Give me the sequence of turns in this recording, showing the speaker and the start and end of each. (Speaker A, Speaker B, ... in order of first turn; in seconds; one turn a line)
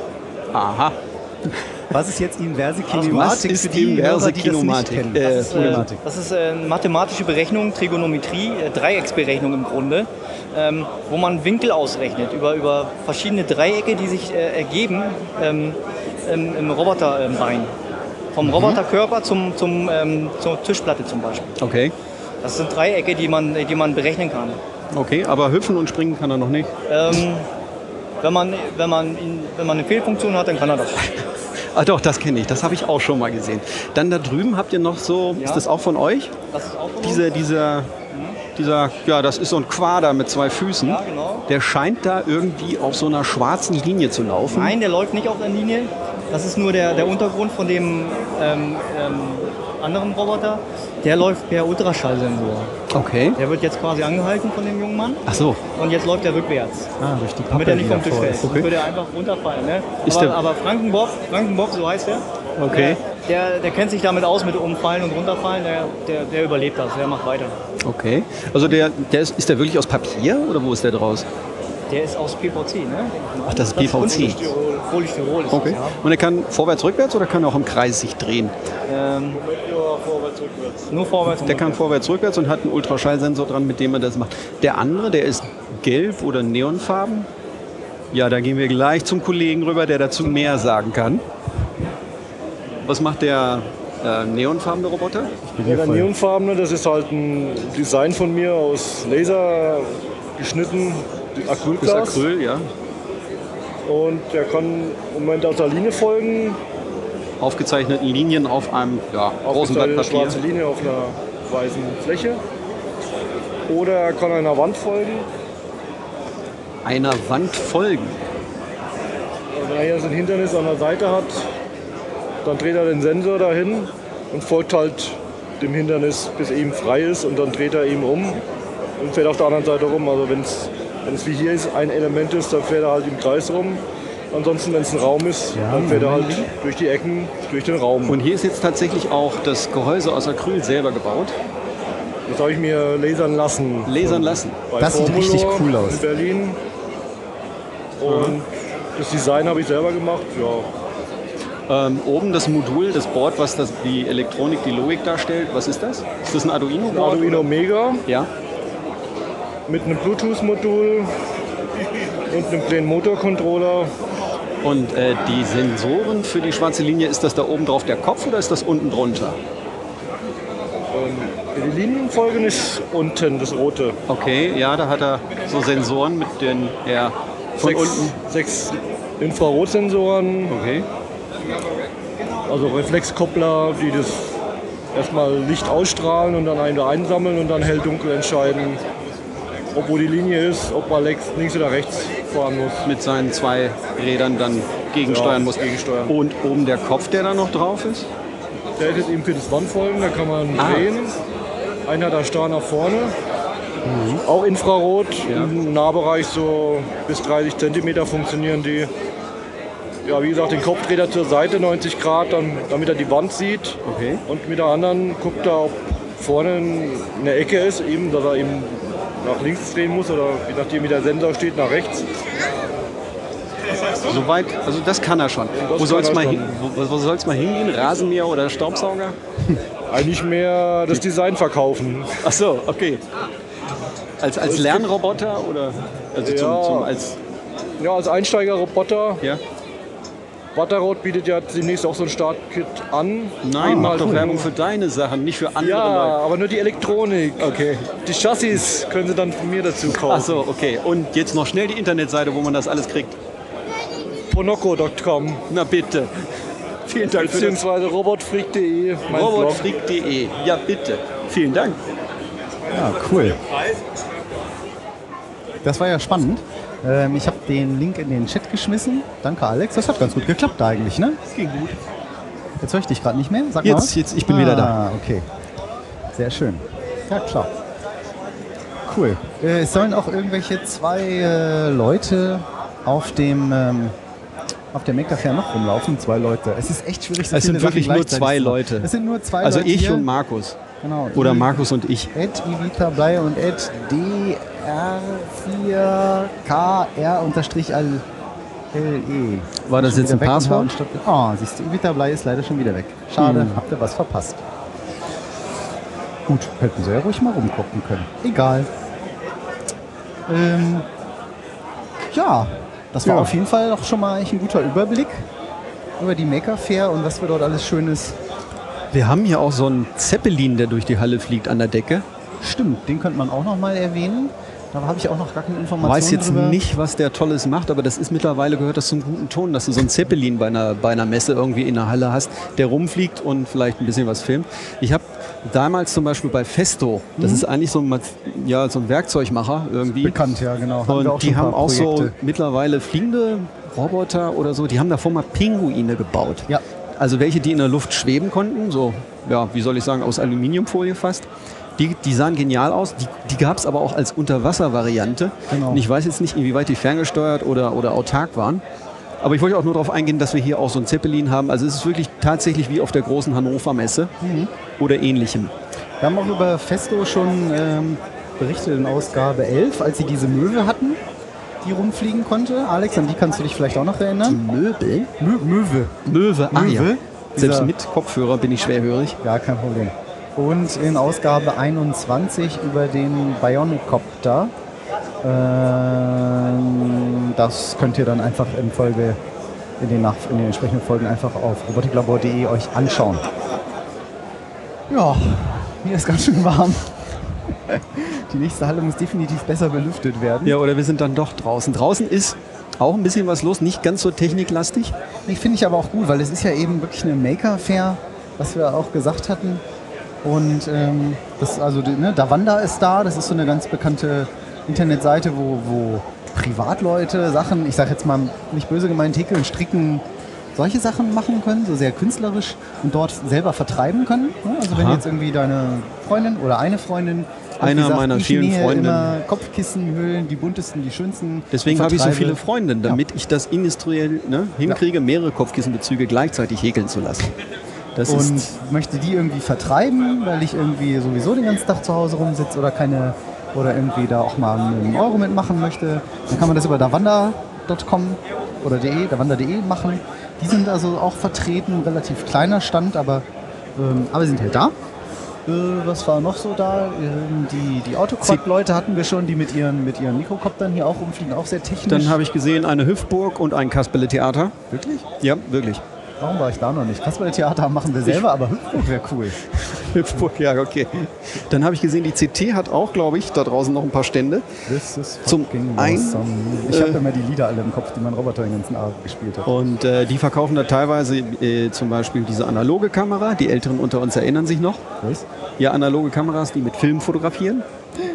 Speaker A: 0.5-1.6
Speaker B: 1.9-6.0
Speaker C: 2.9-3.4
Speaker A: 3.0-5.8
Speaker C: 5.2-17.7
Speaker C: 18.3-21.6
Speaker A: 18.4-18.8
Speaker A: 21.6-21.9
Speaker C: 22.4-24.6
Speaker A: 24.9-27.1
Speaker C: 26.9-27.5
Speaker C: 28.2-31.1
Speaker A: 31.7-36.3
Speaker C: 35.4-35.6
Speaker C: 36.5-37.3
Speaker A: 37.0-37.9
Speaker C: 38.1-38.4
Speaker A: 38.5-44.8
Speaker C: 40.8-41.4
Speaker C: 44.5-52.8
Speaker A: 52.9-53.4
Speaker C: 53.4-55.2
Speaker A: 55.3-55.6
Speaker C: 55.7-56.9
Speaker B: 57.0-58.7
Speaker C: 57.5-67.6
Speaker A: 58.4-58.7
Speaker A: 60.0-60.4
Speaker A: 62.6-63.0
Speaker A: 67.8-71.3
Speaker C: 71.9-76.0
Speaker A: 73.5-74.4
Speaker D: 74.2-74.9
Speaker A: 75.5-78.5
Speaker C: 78.9-79.4
Speaker D: 79.3-80.9
Speaker C: 80.9-81.8
Speaker A: 81.4-87.3
Speaker A: 88.1-91.2
Speaker A: 92.8-95.3
Speaker B: 95.5-96.1
Speaker D: 95.6-102.2
Speaker A: 101.8-102.7
Speaker D: 103.8-106.6
Speaker A: 107.4-110.4
Speaker D: 109.4-112.4
Speaker D: 113.7-115.3
Speaker A: 116.8-118.2
Speaker D: 119.5-121.4
Speaker D: 122.4-128.4
Speaker D: 129.0-138.2
Speaker B: 135.5-136.5
Speaker A: 138.1-141.3
Speaker D: 142.3-146.6
Speaker A: 143.8-144.6
Speaker B: 144.8-146.0
Speaker D: 148.0-150.7
Speaker A: 148.0-148.4
Speaker A: 151.7-157.4
Speaker D: 156.9-158.0
Speaker D: 159.7-161.1
Speaker D: 162.3-163.9
Speaker A: 164.6-169.4
Speaker D: 170.9-174.0
Speaker A: 174.1-178.2
Speaker D: 177.6-180.6
Speaker A: 180.5-180.9
Speaker D: 182.5-184.3
Speaker D: 184.9-188.8
Speaker D: 189.7-192.9
Speaker A: 192.8-198.1
Speaker D: 195.0-196.1
Speaker D: 198.8-201.2
Speaker A: 200.6-200.9
Speaker D: 201.8-203.1
Speaker A: 203.8-204.2
Speaker D: 204.3-208.9
Speaker D: 210.0-222.0
Speaker A: 213.8-214.2
Speaker A: 224.0-229.2
Speaker D: 225.6-226.6
Speaker D: 229.9-232.2
Speaker A: 232.2-233.0
Speaker A: 234.2-237.2
Speaker D: 234.4-234.9
Speaker D: 236.2-236.9
Speaker D: 237.8-239.2
Speaker D: 240.5-244.5
Speaker A: 243.4-246.2
Speaker B: 243.6-244.4
Speaker D: 245.6-250.4
Speaker A: 247.4-247.9
Speaker A: 249.9-253.2
Speaker D: 254.3-255.4
Speaker A: 255.5-256.2
Speaker A: 256.9-257.6
Speaker D: 257.2-259.7
Speaker A: 259.1-261.8
Speaker B: 262.7-263.4
Speaker B: 265.6-271.2
Speaker A: 271.3-271.8
Speaker B: 272.6-275.2
Speaker A: 273.6-274.8
Speaker B: 276.1-277.5
Speaker B: 278.9-283.9
Speaker B: 284.7-290.1
Speaker A: 287.3-288.9
Speaker A: 289.4-290.6
Speaker B: 290.8-298.0
Speaker A: 291.1-292.1
Speaker B: 298.7-304.4
Speaker A: 299.6-300.7
Speaker A: 303.2-303.6
Speaker B: 306.3-308.7
Speaker B: 310.3-310.9
Speaker B: 312.1-315.3
Speaker A: 313.0-313.3
Speaker B: 316.0-318.2
Speaker A: 318.9-322.0
Speaker B: 322.4-326.6
Speaker A: 325.8-340.2
Speaker B: 337.2-337.4
Speaker B: 340.0-342.1
Speaker A: 340.9-358.6
Speaker B: 355.5-355.8
Speaker A: 359.2-364.1
Speaker B: 364.2-364.5
Speaker A: 364.8-365.5
Speaker B: 366.0-371.0
Speaker B: 371.6-374.4
Speaker A: 374.2-375.1
Speaker B: 375.2-375.9
Speaker A: 376.0-379.2
Speaker B: 376.5-377.7
Speaker B: 379.2-384.5
Speaker B: 385.2-389.2
Speaker B: 389.8-393.2
Speaker B: 394.9-400.6
Speaker A: 400.4-404.9
Speaker B: 405.3-409.6
Speaker B: 410.2-420.0
Speaker B: 420.5-433.0
Speaker A: 424.7-425.0
Speaker A: 427.6-429.1
Speaker A: 431.5-437.3
Speaker A: 437.9-438.5
Speaker B: 438.1-453.2
Speaker B: 453.8-454.7
Speaker B: 455.4-462.2
Speaker A: 461.9-464.6
Speaker B: 464.7-465.0
Speaker A: 465.2-465.8
Speaker B: 466.2-469.4
Speaker A: 469.4-474.5
Speaker B: 474.6-479.5
Speaker A: 475.2-477.0
Speaker A: 479.4-484.8
Speaker A: 485.6-487.6